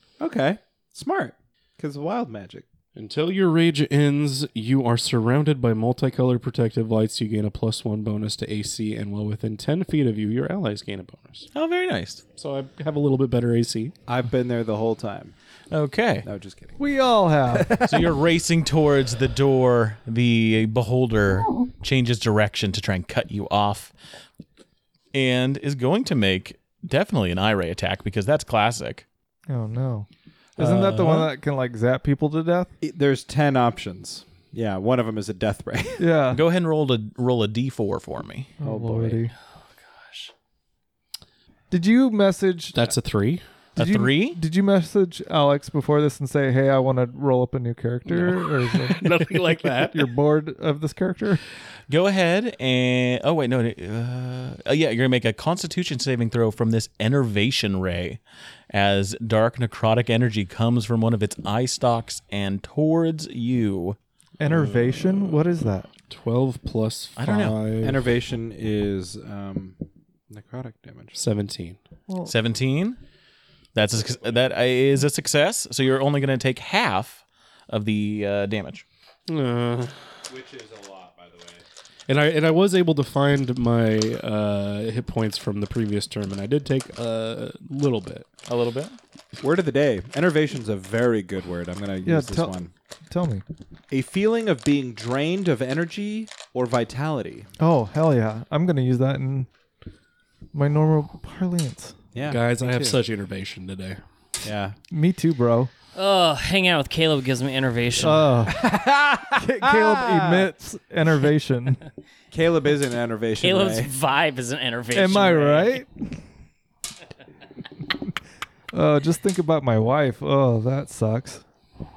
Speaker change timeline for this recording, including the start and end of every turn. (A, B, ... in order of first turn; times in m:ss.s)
0:00.2-0:02.7 A
0:03.0-0:11.5 B
0:11.5-0:12.2 C
0:12.4-0:14.0 B
0:14.1-0:15.3 A
0:15.7-0:16.3 C
0:16.2-0:16.8 A
0:16.8-0:17.8 D
0:17.5-0:18.2 A
0:17.8-0:23.9 C
0:25.1-0:29.0 C
0:29.5-0:32.7 D
0:30.6-0:31.3 C
0:32.8-0:36.1 A
0:36.0-0:36.4 D
0:36.3-0:38.5 C
0:38.6-0:39.3 D
0:38.7-0:39.2 A
0:40.0-0:40.3 E
0:41.7-0:42.9 D
0:42.7-0:43.4 B
0:43.8-0:51.4 D
0:43.8-0:44.4 C
0:48.1-0:50.1 B
0:51.9-0:58.2 C
0:58.7-1:04.0 C
1:04.4-1:05.9 D
1:04.4-1:05.4 B
1:06.1-1:08.1 B
1:07.2-1:07.6 C
1:07.8-1:11.2 A
1:11.2-1:11.8 B
1:12.1-1:12.3 D
1:12.2-1:13.0 C
1:13.8-1:18.8 C
1:19.3-1:20.1 B
1:20.3-1:21.6 A
1:22.1-1:28.3 B
1:28.5-1:29.0 C
1:29.4-1:32.7 A
1:32.1-1:32.6 D
1:33.1-1:33.4 D
1:33.9-1:37.5 A
1:37.6-1:39.5 D
1:40.5-1:42.0 D
1:42.1-1:43.0 A
1:42.3-1:44.0 B
1:44.4-1:44.8 A
1:44.9-1:45.7 D
1:46.0-1:48.3 E
1:48.0-1:48.7 D
1:48.5-1:50.5 A
1:49.4-1:51.8 D
1:52.3-1:53.9 A
1:53.4-1:55.8 E
1:54.9-1:56.2 D
1:58.7-2:01.4 D